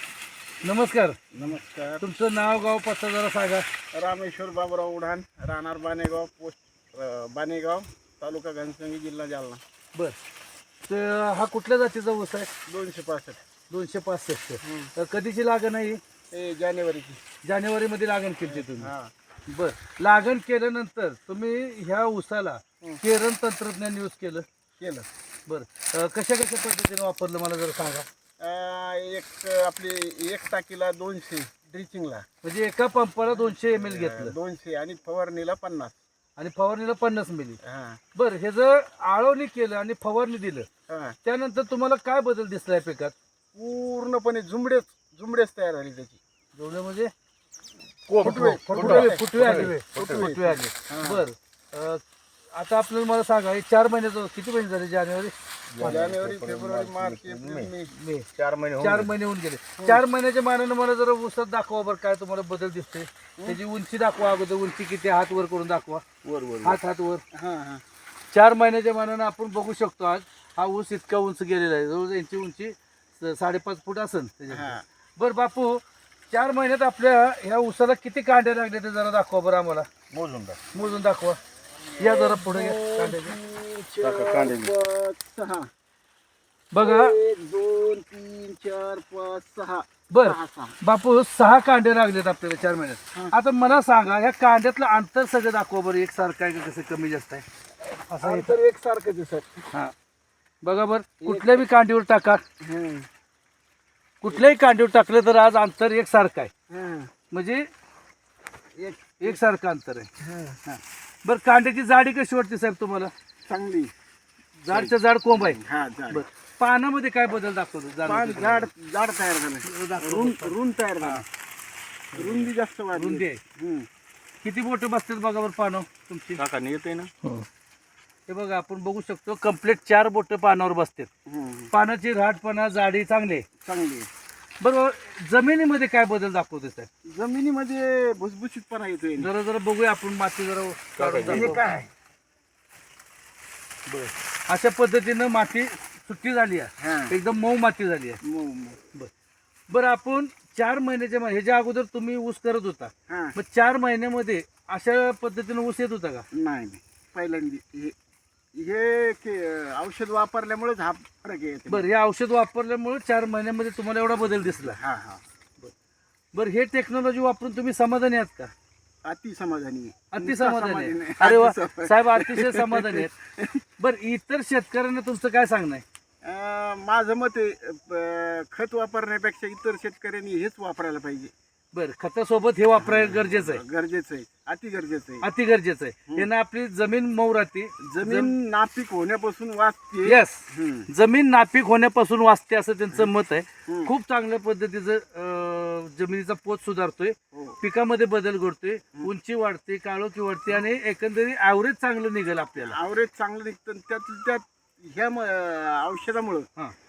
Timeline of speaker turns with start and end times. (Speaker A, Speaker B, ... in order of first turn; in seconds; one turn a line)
Speaker A: 0.6-1.2
Speaker B: 1.3-2.0
Speaker A: 2.0-3.7
Speaker B: 3.9-9.6
Speaker A: 10.9-12.5
Speaker B: 12.7-13.4
Speaker A: 13.7-16.0
Speaker B: 14.6-14.9
Speaker B: 16.3-17.2
Speaker A: 17.4-18.9
Speaker B: 18.5-19.1
Speaker A: 19.5-24.4
Speaker B: 24.8-25.1
Speaker A: 25.5-28.1
Speaker B: 28.4-32.3
Speaker A: 32.4-34.4
Speaker B: 33.4-36.0
Speaker A: 36.4-37.6
Speaker B: 37.6-38.0
Speaker A: 38.1-40.7
Speaker B: 40.9-41.2
Speaker A: 41.2-43.1
Speaker B: 43.5-46.2
Speaker A: 46.5-47.1
Speaker C: 48.1-50.5
Speaker B: 48.2-49.2
Speaker A: 48.2-52.0
Speaker B: 49.9-51.2
Speaker A: 52.5-56.0
Speaker C: 55.7-57.7
Speaker B: 55.8-57.9
Speaker A: 57.9-58.3
Speaker C: 58.4-59.1
Speaker A: 58.8-66.0
Speaker C: 66.2-66.8
Speaker A: 66.6-67.2
Speaker B: 67.3-67.8
Speaker A: 68.3-79.9
Speaker B: 74.5-74.8
Speaker C: 80.1-80.6
Speaker A: 80.7-81.4
Speaker B: 81.9-85.7
Speaker A: 82.0-83.4
Speaker C: 84.0-84.7
Speaker A: 86.7-87.1
Speaker B: 86.8-90.8
Speaker A: 90.1-97.5
Speaker A: 98.1-98.6
Speaker B: 98.2-99.7
Speaker A: 100.6-102.4
Speaker B: 101.2-101.6
Speaker B: 102.6-103.1
Speaker A: 104.2-106.5
Speaker B: 106.7-107.1
Speaker A: 107.3-107.6
Speaker B: 108.8-109.4
Speaker A: 109.2-110.1
Speaker B: 110.2-110.6
Speaker A: 110.7-113.1
Speaker B: 113.5-113.9
Speaker A: 114.6-115.6
Speaker B: 114.7-116.3
Speaker A: 116.1-118.7
Speaker B: 118.0-121.2
Speaker A: 119.7-121.2
Speaker A: 122.2-123.4
Speaker B: 122.2-123.9
Speaker A: 124.4-126.4
Speaker C: 126.4-127.1
Speaker A: 128.3-131.1
Speaker B: 131.3-131.7
Speaker A: 131.7-133.4
Speaker B: 133.6-134.1
Speaker A: 134.6-136.9
Speaker B: 137.1-139.3
Speaker A: 139.2-141.7
Speaker C: 141.0-141.5
Speaker B: 141.2-141.9
Speaker A: 143.9-148.2
Speaker B: 146.8-147.2
Speaker B: 148.2-148.8
Speaker A: 149.7-156.2
Speaker B: 153.1-153.4
Speaker B: 156.3-157.9
Speaker B: 158.6-161.9
Speaker A: 161.7-164.8
Speaker B: 164.6-165.2
Speaker A: 166.3-168.5
Speaker B: 169.1-173.6
Speaker A: 170.1-173.1
Speaker A: 173.8-175.8
Speaker B: 176.2-181.3
Speaker A: 181.7-183.6
Speaker B: 182.8-185.3
Speaker A: 185.2-188.3
Speaker B: 187.8-190.9
Speaker A: 190.1-202.8
Speaker B: 193.7-193.9
Speaker B: 197.3-197.6
Speaker B: 202.6-206.5